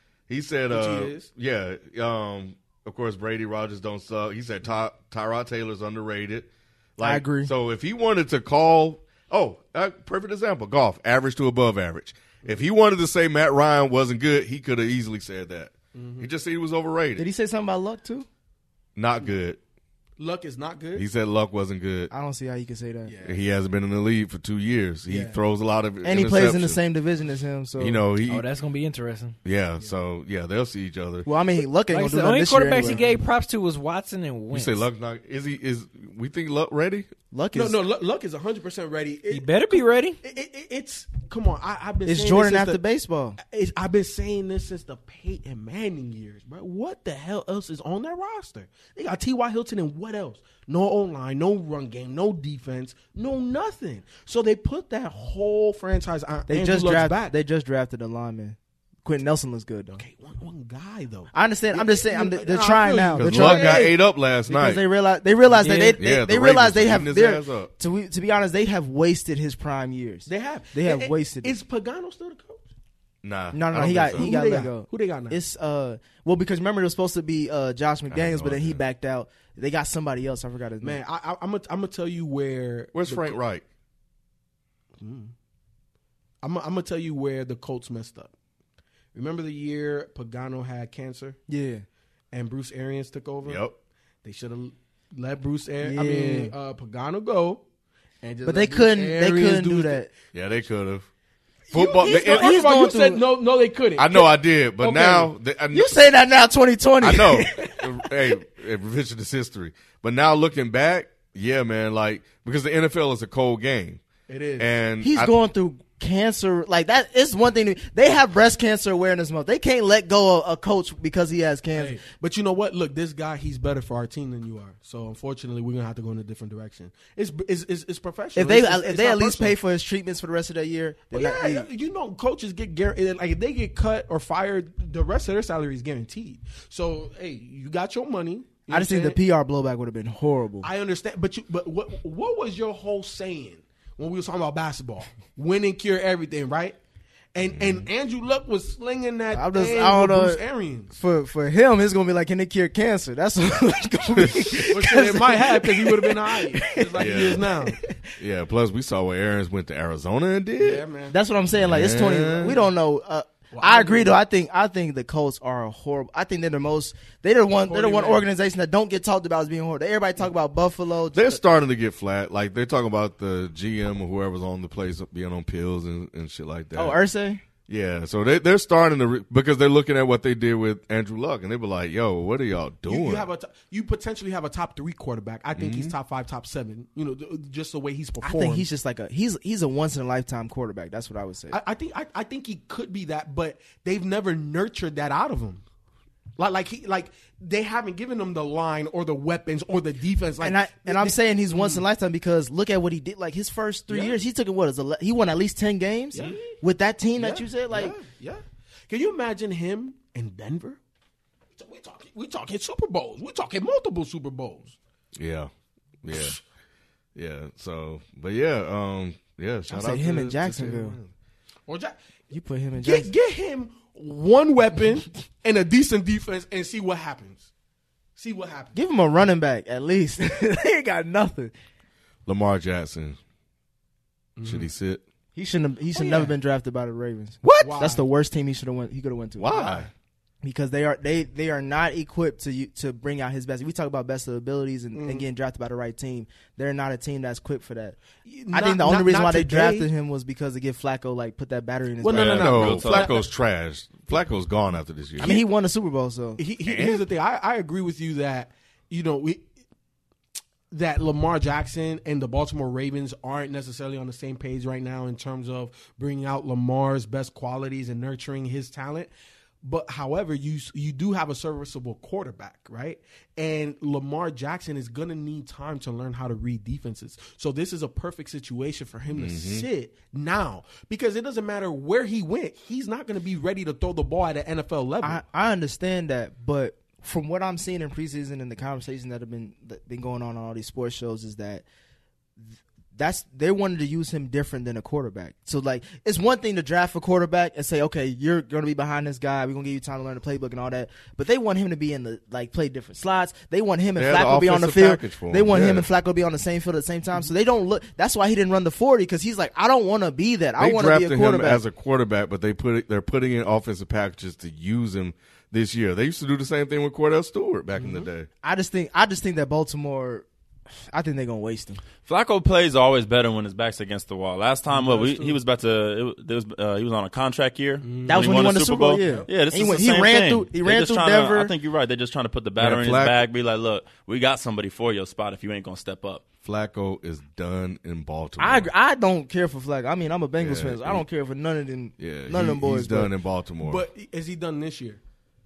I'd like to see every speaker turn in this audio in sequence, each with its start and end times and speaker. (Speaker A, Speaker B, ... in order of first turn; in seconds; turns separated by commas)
Speaker A: 0.3-17.2, Speaker B: 0.7-1.3, Speaker C: 7.0-7.5, Speaker B: 15.9-16.3, Speaker C: 17.2-18.3, Speaker A: 19.0-19.6, Speaker B: 20.2-21.1, Speaker A: 20.9-22.1, Speaker C: 22.1-23.2, Speaker B: 23.1-23.4, Speaker A: 23.2-26.8, Speaker B: 25.1-25.4, Speaker C: 26.0-28.0, Speaker A: 27.8-28.5, Speaker D: 28.3-29.4, Speaker A: 29.4-31.3, Speaker C: 31.2-33.0, Speaker D: 31.9-34.9, Speaker A: 34.5-37.1, Speaker C: 37.3-37.8, Speaker B: 37.5-42.8, Speaker D: 39.3-40.2, Speaker C: 42.1-43.4, Speaker B: 43.4-57.3, Speaker C: 56.5-60.0, Speaker B: 59.9-64.0, Speaker C: 61.3-71.5, Speaker A: 63.2-64.8, Speaker A: 65.9-67.7, Speaker B: 70.3-72.6, Speaker A: 73.2-74.3, Speaker C: 73.5-81.0, Speaker B: 73.8-75.4, Speaker A: 78.1-78.8, Speaker B: 80.8-83.4, Speaker A: 82.9-83.6, Speaker B: 85.0-85.3, Speaker B: 86.4-88.3, Speaker B: 89.1-91.4, Speaker C: 91.5-91.8, Speaker B: 92.3-93.6, Speaker A: 93.4-93.8, Speaker B: 94.2-97.6, Speaker C: 95.8-96.5, Speaker B: 98.2-100.1, Speaker C: 98.4-100.1, Speaker A: 100.3-101.1, Speaker B: 101.7-105.3, Speaker A: 101.7-102.6, Speaker C: 102.0-103.2, Speaker A: 104.0-106.0, Speaker C: 105.7-108.0, Speaker A: 107.0-114.0, Speaker B: 114.3-114.7, Speaker A: 114.6-115.3, Speaker C: 115.0-122.0, Speaker B: 121.8-129.6, Speaker C: 128.3-131.7, Speaker B: 131.1-139.2, Speaker C: 138.7-140.7, Speaker B: 140.6-146.8, Speaker B: 147.3-150.9, Speaker A: 147.6-147.8, Speaker C: 149.3-158.0, Speaker A: 154.2-154.5, Speaker B: 154.6-157.8, Speaker A: 157.0-157.5, Speaker A: 158.2-160.9, Speaker B: 160.6-161.2, Speaker C: 161.1-171.4, Speaker A: 161.6-162.6, Speaker B: 163.5-164.1, Speaker B: 167.7-168.2, Speaker A: 171.1-177.0, Speaker C: 176.7-177.4, Speaker A: 177.7-183.3, Speaker B: 182.9-188.7, Speaker A: 185.6-185.9, Speaker C: 188.2-191.6, Speaker B: 191.5-195.6, Speaker B: 196.4-201.8, Speaker C: 200.4-208.0, Speaker B: 203.9-204.2, Speaker B: 206.1-206.6, Speaker B: 207.2-210.8, Speaker B: 211.5-214.8, Speaker A: 215.2-215.5, Speaker A: 216.0-216.4, Speaker B: 216.1-216.4, Speaker A: 217.2-220.5, Speaker C: 219.7-221.0, Speaker B: 220.4-221.1, Speaker B: 221.7-222.0, Speaker C: 222.3-223.1, Speaker B: 222.8-227.5, Speaker B: 228.2-228.8, Speaker C: 228.8-231.5, Speaker A: 232.3-233.2, Speaker B: 234.4-234.7, Speaker A: 234.4-235.0, Speaker C: 235.3-239.7, Speaker B: 235.9-236.3, Speaker A: 237.4-237.8, Speaker B: 237.6-238.0, Speaker A: 239.4-239.9, Speaker B: 239.5-239.9, Speaker C: 240.4-248.0, Speaker B: 244.9-245.2, Speaker B: 248.2-249.9, Speaker C: 248.5-252.4, Speaker B: 252.0-253.2, Speaker A: 252.1-255.4, Speaker E: 252.2-253.2, Speaker C: 255.2-256.4, Speaker B: 256.4-259.5, Speaker A: 256.6-257.1, Speaker B: 260.7-269.1, Speaker B: 269.6-285.2, Speaker A: 279.1-279.7, Speaker C: 285.0-291.6, Speaker C: 292.4-311.6, Speaker A: 304.0-305.9, Speaker A: 310.6-318.3, Speaker B: 317.8-318.1, Speaker C: 318.4-320.3, Speaker C: 320.8-321.8, Speaker E: 322.1-336.2, Speaker B: 324.7-325.4, Speaker B: 327.8-329.3, Speaker C: 328.1-331.5, Speaker A: 332.6-333.2, Speaker A: 336.4-338.7, Speaker C: 338.4-343.1, Speaker A: 340.4-341.1, Speaker A: 342.0-343.8, Speaker B: 343.6-345.0